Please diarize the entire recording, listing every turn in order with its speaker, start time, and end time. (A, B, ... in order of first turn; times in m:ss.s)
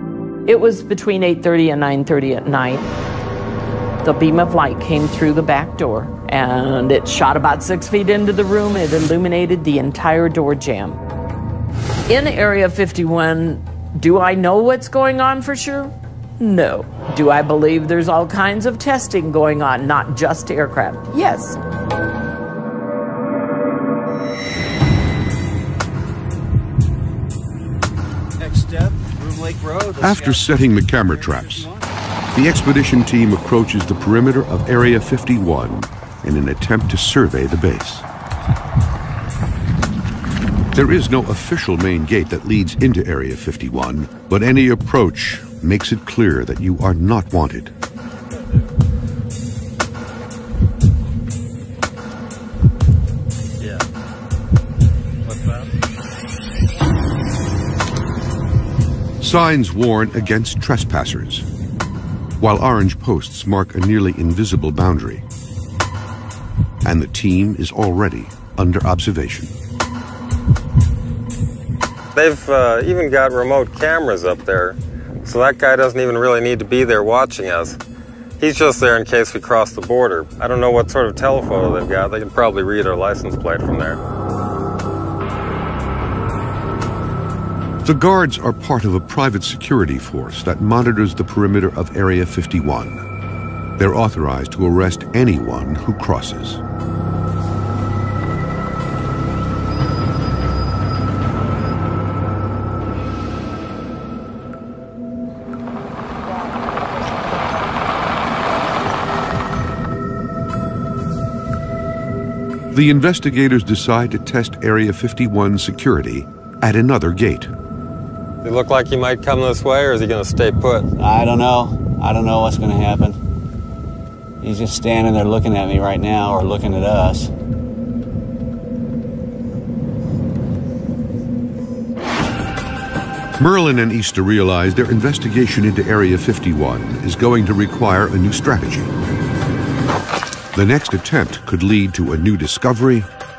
0:00.4-0:02.9 A
0:04.0-0:11.0 A
0:12.1-0:21.6 A
0:28.4-0:31.9 B
0:30.0-0:31.7 C
0:32.3-0:38.0 C
0:40.7-0:47.7 C
0:55.2-0:55.7 D
0:59.2-1:01.4 C
1:02.4-1:05.2 C
1:06.8-1:09.5 C
1:12.1-1:17.8 D
1:18.4-1:24.0 D
1:27.8-1:33.0 C
1:33.8-1:36.6 C
1:52.7-1:57.5 C
1:58.4-2:00.9 D
2:01.0-2:03.2 B
2:04.4-2:07.3 B
2:13.4-2:18.9 C
2:20.5-2:23.1 C